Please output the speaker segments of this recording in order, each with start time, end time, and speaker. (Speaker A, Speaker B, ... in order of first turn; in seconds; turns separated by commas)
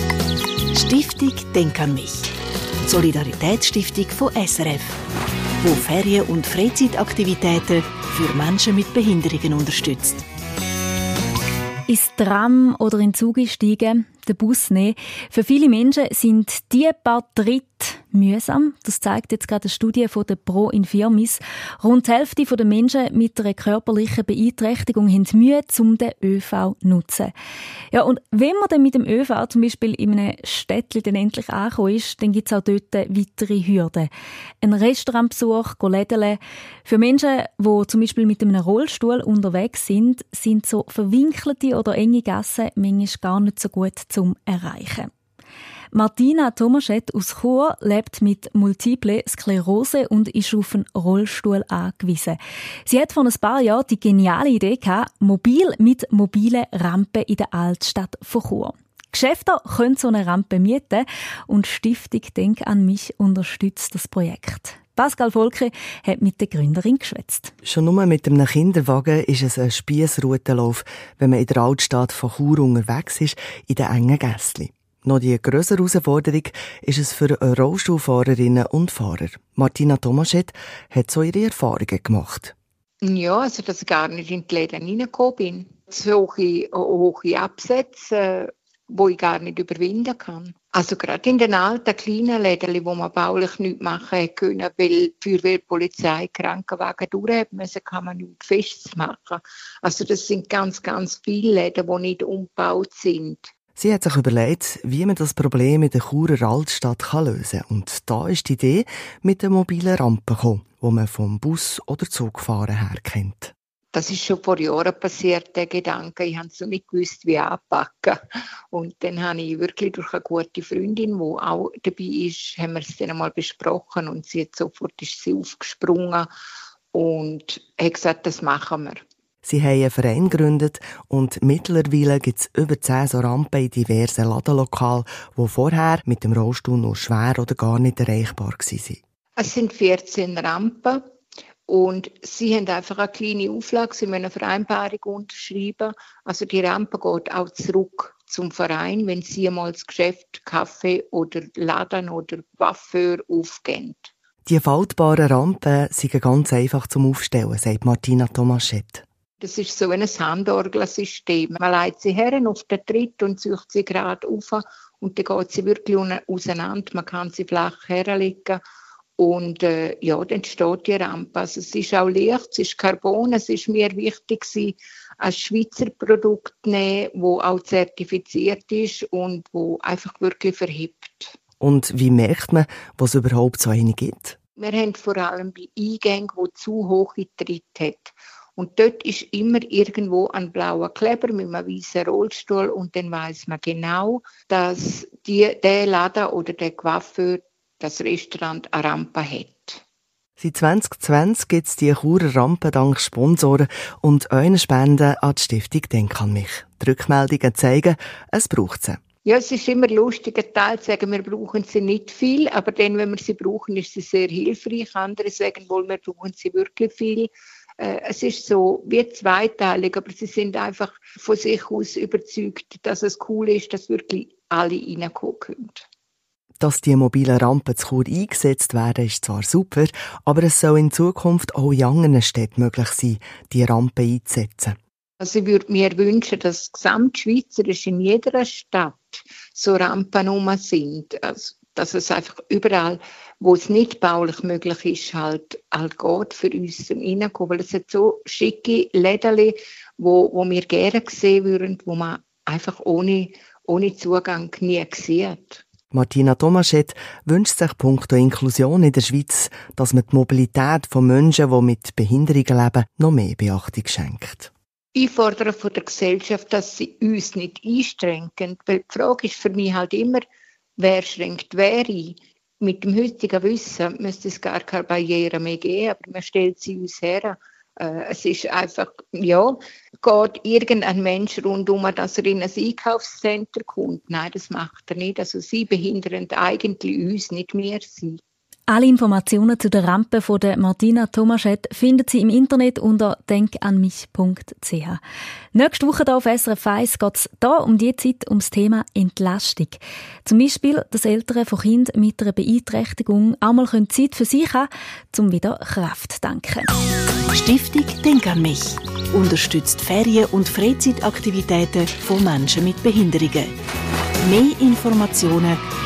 Speaker A: 0.7-2.3, Speaker A: 2.9-5.0, Speaker A: 5.6-10.2, Speaker B: 11.9-27.3, Speaker B: 27.9-34.1, Speaker B: 34.6-45.1, Speaker B: 45.9-67.5, Speaker C: 67.7-82.5, Speaker D: 83.0-103.5, Speaker C: 103.8-113.5, Speaker D: 113.9-118.2, Speaker D: 118.7-126.3, Speaker D: 126.9-129.0, Speaker C: 129.4-139.0, Speaker D: 139.4-141.0, Speaker D: 141.7-154.1, Speaker C: 154.5-159.0, Speaker D: 159.4-168.6, Speaker D: 169.2-181.3, Speaker C: 181.6-184.4, Speaker D: 184.6-199.8, Speaker C: 200.4-209.0, Speaker D: 209.2-225.8, Speaker C: 226.6-234.8, Speaker D: 235.2-255.6, Speaker C: 255.9-264.5, Speaker D: 264.9-270.2, Speaker D: 270.8-288.2, Speaker B: 288.7-295.0, Speaker B: 295.5-306.7, Speaker A: 307.3-313.5, Speaker A: 314.2-315.6